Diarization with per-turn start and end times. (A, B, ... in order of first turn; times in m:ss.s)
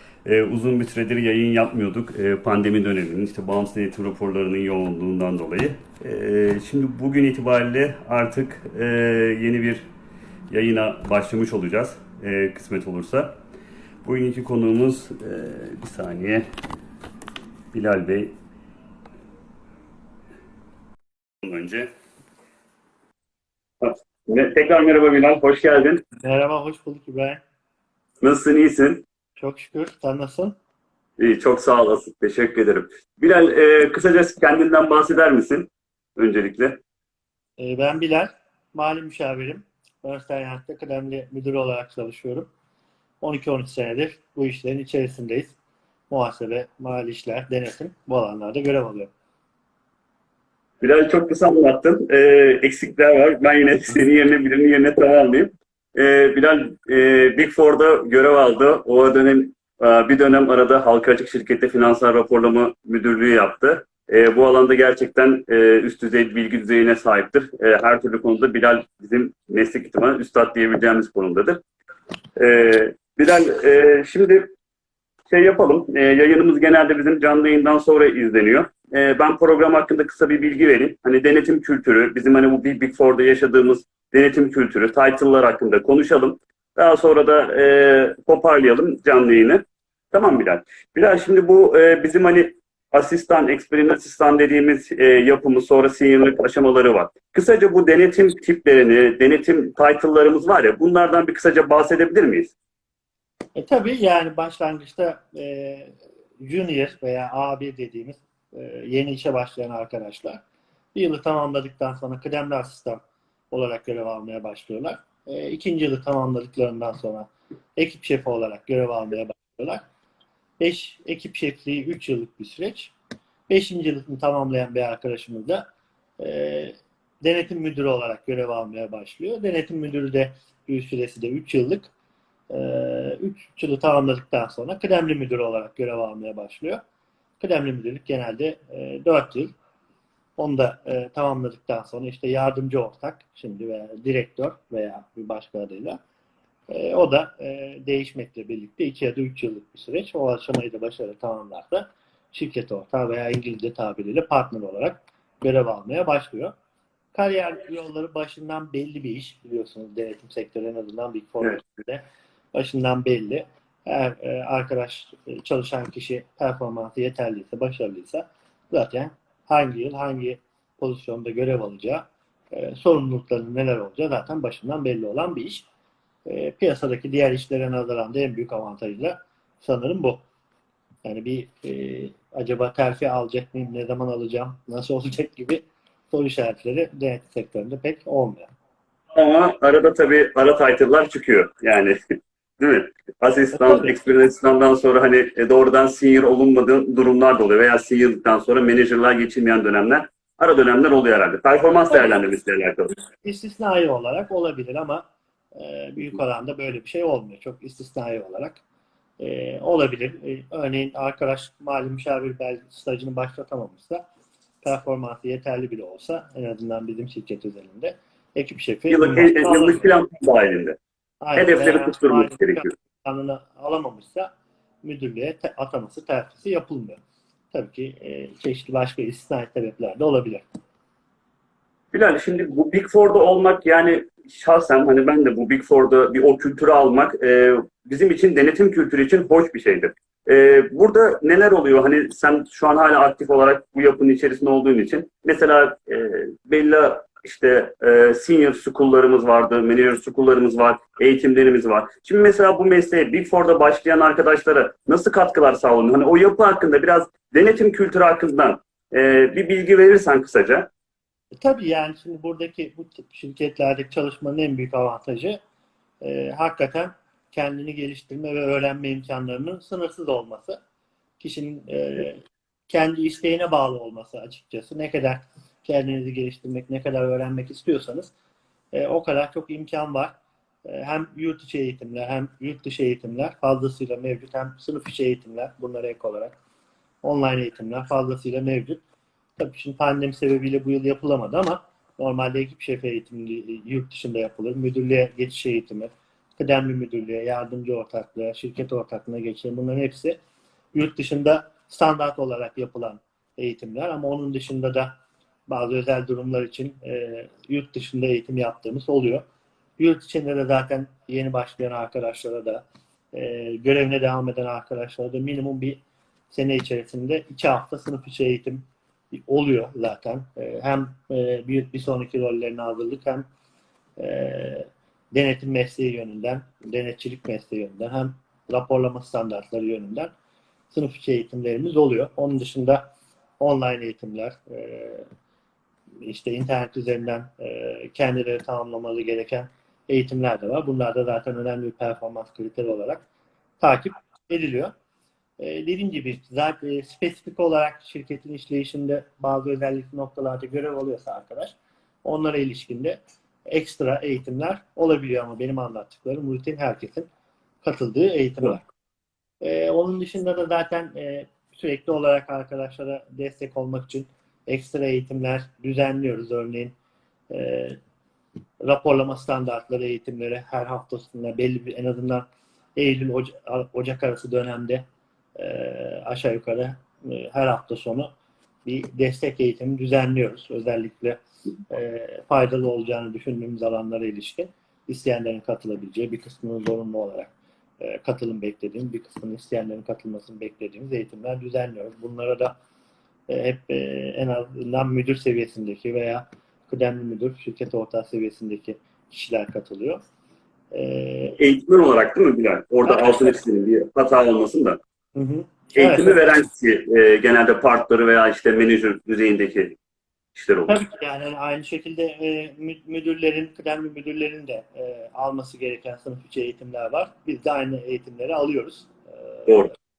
0:00.2-0:09.8 A
0:10.5-0:13.3 A
0:14.0-0:16.4 A
0:17.7-0:18.3 A
0:21.4-0:21.9 A
0:23.8-0:26.0 A
0:26.2-0:27.4 B
0:28.2-0:29.0 A
0:29.4-0:30.6 B
0:31.2-0:36.8 A
0:37.6-0:42.5 B
0:43.2-0:45.5 B
0:46.1-0:49.1 B
0:50.8-1:11.6 A
1:12.4-1:14.5 A
1:15.3-1:42.5 A
1:43.5-1:50.4 B
1:50.9-1:59.8 B
2:00.6-2:02.9 B
2:03.5-2:05.6 B
2:06.2-2:11.9 B
2:12.5-2:16.8 B
2:17.4-2:19.5 B
2:20.4-2:26.0 B
2:26.7-2:36.5 B
2:37.1-2:55.6 B
2:56.2-3:00.2 B
3:01.0-3:08.5 B
3:09.1-3:12.0 A
3:12.6-3:22.9 A
3:13.5-3:14.0 B
3:21.9-3:22.2 B
3:22.9-3:25.0 B
3:25.5-3:28.6 B
3:29.2-3:34.0 B
3:34.6-3:39.9 B
3:38.9-3:40.8 A
3:41.2-3:44.3 B
3:41.4-3:42.7 A
3:44.8-3:47.0 B
3:47.5-3:50.5 B
3:51.9-4:20.7 A
4:21.4-4:25.4 B
4:26.0-4:30.6 B
4:31.2-4:38.1 B
4:38.7-4:40.1 B
4:40.6-4:46.4 B
4:47.0-4:48.8 B
4:49.4-5:00.2 B
5:00.7-5:04.9 B
5:05.5-5:09.2 B
5:09.8-5:15.8 B
5:16.3-5:23.2 B
5:24.0-5:30.1 B
5:30.7-5:32.9 B
5:33.4-5:35.1 B
5:36.0-5:43.0 B
5:43.6-5:44.7 B
5:45.4-5:57.1 B
5:57.6-5:58.6 B
5:59.4-6:06.7 B
6:07.3-6:07.8 B
6:08.6-6:12.2 B
6:12.8-6:14.8 B
6:15.4-6:18.1 B
6:18.6-6:21.2 B
6:21.7-6:32.6 B
6:33.3-6:40.0 B
6:40.7-6:41.4 B
6:41.4-6:44.8 A
6:42.8-6:43.4 B
6:45.1-6:46.2 B
6:45.7-6:49.8 A
6:50.3-6:50.8 A
6:50.7-6:59.5 B
6:59.4-6:59.7 A